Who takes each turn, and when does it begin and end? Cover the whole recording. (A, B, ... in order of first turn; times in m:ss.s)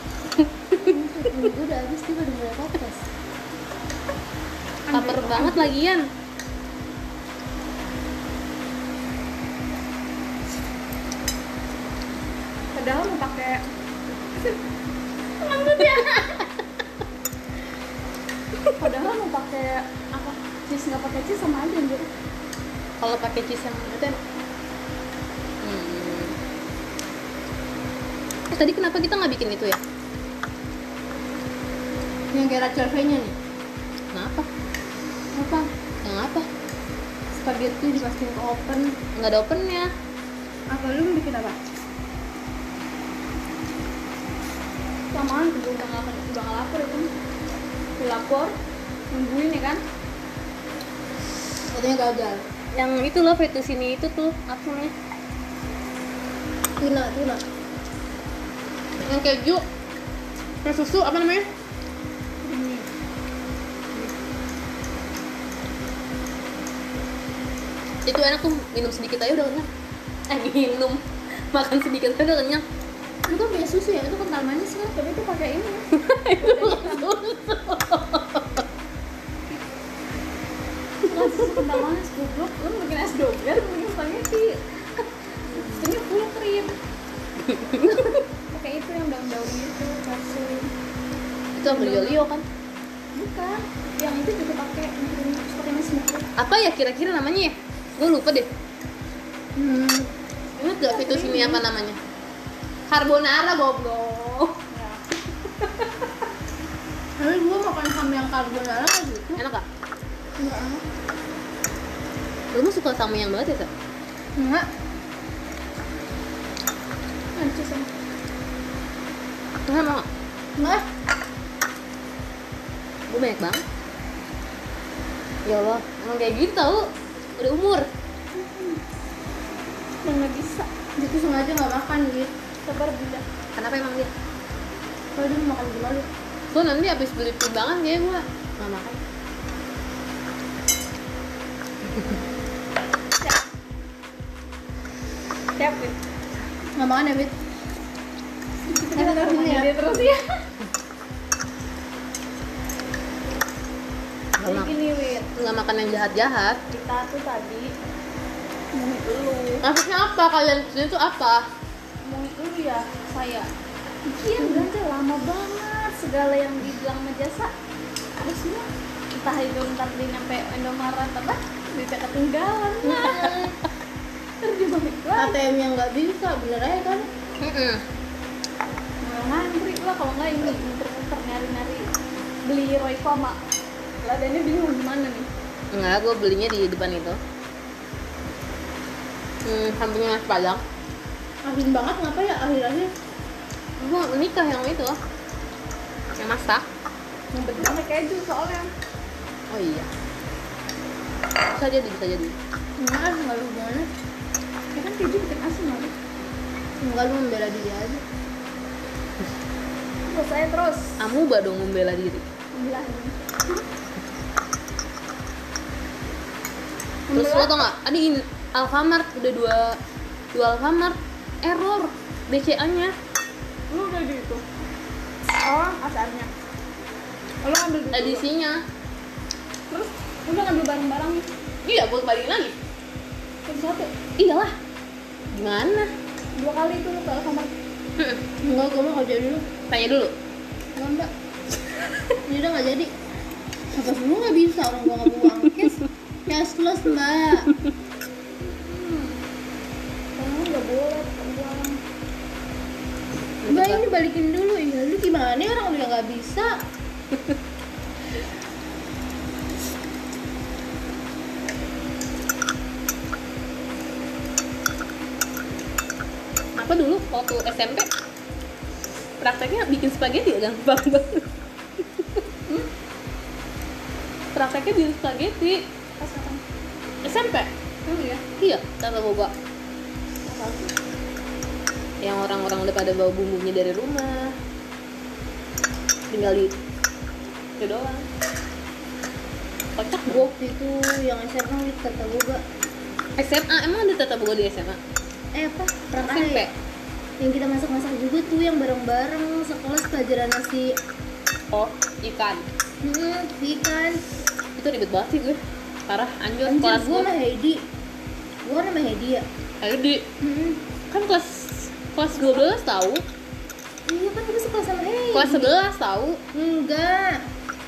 0:00.4-0:01.5 A
0:00.8-0:03.0 B
0:04.9-0:05.6 B
0:04.9-0:06.1 A
0:05.0-0:05.6 C
0:12.8-0:13.6 C
0:15.4-0:16.4 C
0:18.8-0:22.1 C
0:23.0-0:24.2 A
0:25.6-0:26.4 A
0:28.5-0:29.8 A
0:32.3-0:33.3 B
0:34.1-0:34.5 A
0:35.4-0:36.5 A
0:37.4-0:38.9 B
0:39.0-0:39.9 A
0:40.7-0:41.6 B
0:45.1-0:47.1 C
0:48.0-0:48.5 C
0:49.1-0:49.8 C
0:51.7-0:52.4 B
0:52.7-0:54.9 A
0:56.8-0:57.4 B
0:59.0-0:59.6 A
1:00.6-1:01.5 A
1:02.4-1:02.9 C
1:08.1-1:09.7 A
1:10.3-1:12.6 A
1:13.3-1:14.9 B
1:14.9-1:17.2 C
1:15.9-1:18.7 A
1:21.0-1:26.8 C
1:21.0-1:21.8 A
1:27.4-1:28.1 A
1:27.8-1:30.7 C
1:31.6-1:32.4 A
1:31.6-1:32.3 C
1:33.2-1:36.3 C
1:36.4-1:38.5 A
1:39.6-1:40.1 B
1:40.6-1:42.0 A
1:40.9-1:41.6 C
1:42.9-1:44.6 A
1:44.7-1:45.0 C
1:47.2-1:49.4 B
1:49.4-1:49.6 A
1:50.4-1:50.8 C
1:52.5-1:53.7 A
1:54.4-1:54.7 B
1:57.4-1:57.9 C
1:59.7-2:00.1 A
2:00.6-2:00.8 B
2:03.1-2:03.6 A
2:05.4-2:06.9 A
2:07.4-2:07.9 A
2:08.4-2:08.8 C
2:10.0-2:10.7 C
2:11.0-2:12.3 B
2:12.6-2:13.2 C
2:13.6-2:14.1 A
2:15.2-2:16.1 B
2:16.5-2:19.0 A
2:25.6-2:26.0 C
2:26.8-2:27.3 B
2:28.7-2:30.4 C
2:29.0-2:29.7 B
2:34.4-2:34.7 A
2:34.4-2:35.3 C
2:35.4-2:36.6 A
2:36.7-2:37.7 C
2:38.7-2:39.6 C
2:39.6-2:41.4 A
2:42.0-2:43.5 C
2:44.1-2:47.5 C
2:48.2-2:53.5 C
2:52.9-2:53.1 A
2:54.4-2:55.4 C
2:55.2-2:57.1 B
2:57.4-2:57.8 A
2:59.0-3:01.9 C
3:02.4-3:03.4 C
3:04.0-3:05.3 C
3:05.7-3:07.2 A
3:09.4-3:10.6 A
3:11.4-3:12.9 B
3:13.8-3:15.0 A
3:16.2-3:16.6 A
3:17.3-3:18.7 C
3:19.5-3:19.9 A
3:21.5-3:22.4 A
3:22.8-3:23.9 B
3:24.7-3:25.9 C
3:26.8-3:28.0 B
3:30.1-3:31.0 C
3:31.0-3:32.2 A
3:32.5-3:33.6 C
3:37.1-3:37.6 C
3:37.1-3:39.8 A
3:40.3-3:42.9 A
3:43.7-3:44.4 C
3:45.3-3:46.3 C
3:47.4-3:48.3 C
3:47.9-3:48.6 A
3:49.7-3:51.3 C
3:51.6-3:52.5 A
3:53.5-3:53.9 C
3:54.2-3:54.6 A
3:55.3-3:55.9 A
3:56.4-3:57.5 C
3:58.4-3:59.4 B
3:59.7-4:00.1 A
4:00.8-4:01.1 B
4:02.3-4:02.9 B
4:03.7-4:07.5 B
4:08.4-4:09.2 C
4:10.2-4:11.8 C
4:13.4-4:13.8 A
4:13.5-4:16.6 B
4:26.6-4:27.9 A
4:29.2-4:31.3 A
4:31.8-4:32.2 A
4:34.3-4:35.7 A
4:36.0-4:36.4 C
4:37.0-4:37.5 A
4:37.9-4:38.2 C
4:38.4-4:39.3 A
4:40.3-4:40.7 C
4:42.0-4:44.3 A
4:46.1-4:46.6 A
4:47.6-4:48.1 A
4:49.8-4:50.2 A
4:50.1-4:52.4 B
4:53.2-4:54.8 A
4:55.4-4:56.4 B
4:56.0-4:56.5 A
4:57.2-5:00.8 B
5:01.5-5:02.5 A
5:02.8-5:04.0 B
5:04.6-5:07.1 A
5:06.5-5:07.6 B
5:08.4-5:09.2 B
5:09.6-5:10.1 A
5:10.2-5:10.6 B
5:10.9-5:13.0 A
5:13.9-5:15.6 B
5:15.1-5:16.2 A
5:16.3-5:17.2 B